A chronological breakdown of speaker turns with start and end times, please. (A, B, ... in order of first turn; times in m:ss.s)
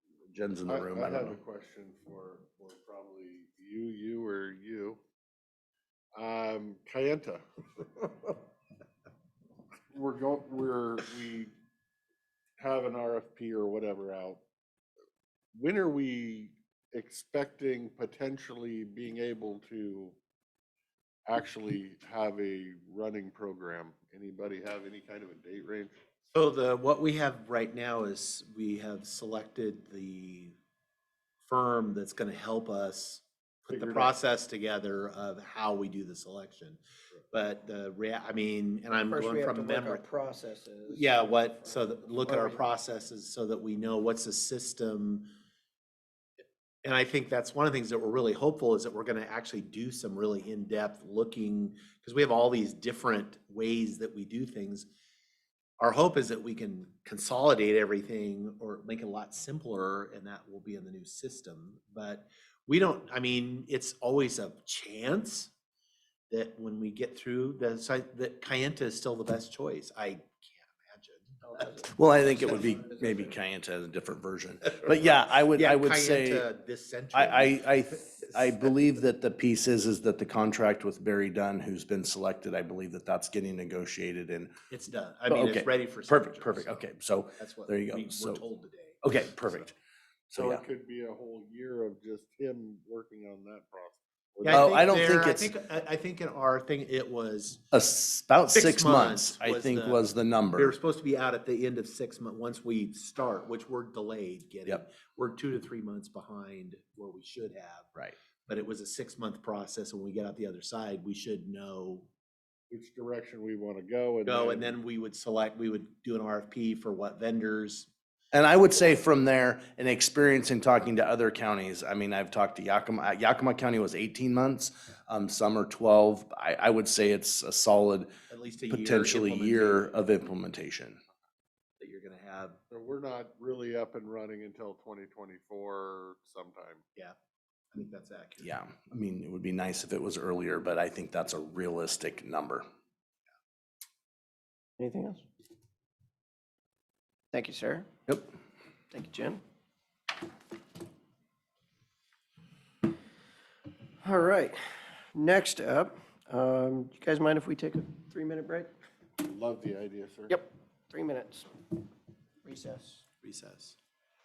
0:00.3-0:01.4 A
0:00.6-0:05.0 B
0:06.1-0:08.3 B
0:09.9-0:11.5 B
0:12.6-0:14.4 B
0:15.5-0:20.2 B
0:21.2-0:26.0 B
0:26.3-0:30.5 C
0:31.5-0:40.1 C
0:33.7-0:34.1 B
0:38.9-0:42.6 D
0:40.9-0:45.3 C
0:46.8-0:54.9 C
0:55.8-1:05.5 C
1:06.3-1:11.8 C
1:11.9-1:16.4 A
1:15.5-1:18.6 C
1:17.1-1:24.5 A
1:24.7-1:26.8 C
1:25.3-1:28.4 A
1:27.4-1:29.6 C
1:29.0-1:29.7 A
1:30.3-1:30.6 A
1:30.3-1:34.6 B
1:34.4-1:37.6 C
1:34.5-1:35.5 A
1:37.7-1:40.7 A
1:38.5-1:40.0 C
1:40.6-1:47.9 C
1:48.5-1:52.1 C
1:52.7-1:54.7 B
1:54.2-1:57.9 C
1:58.3-2:08.1 A
2:08.3-2:09.9 C
2:08.7-2:11.0 A
2:11.8-2:12.6 C
2:12.7-2:16.8 B
2:17.7-2:18.5 C
2:18.4-2:22.6 A
2:24.8-2:25.2 D
2:27.3-2:27.9 D
2:28.9-2:29.4 D
2:34.0-2:34.6 D
2:35.1-2:38.7 D
2:39.2-2:40.4 B
2:40.3-2:41.5 D
2:42.4-2:43.0 D
2:43.2-2:43.8 C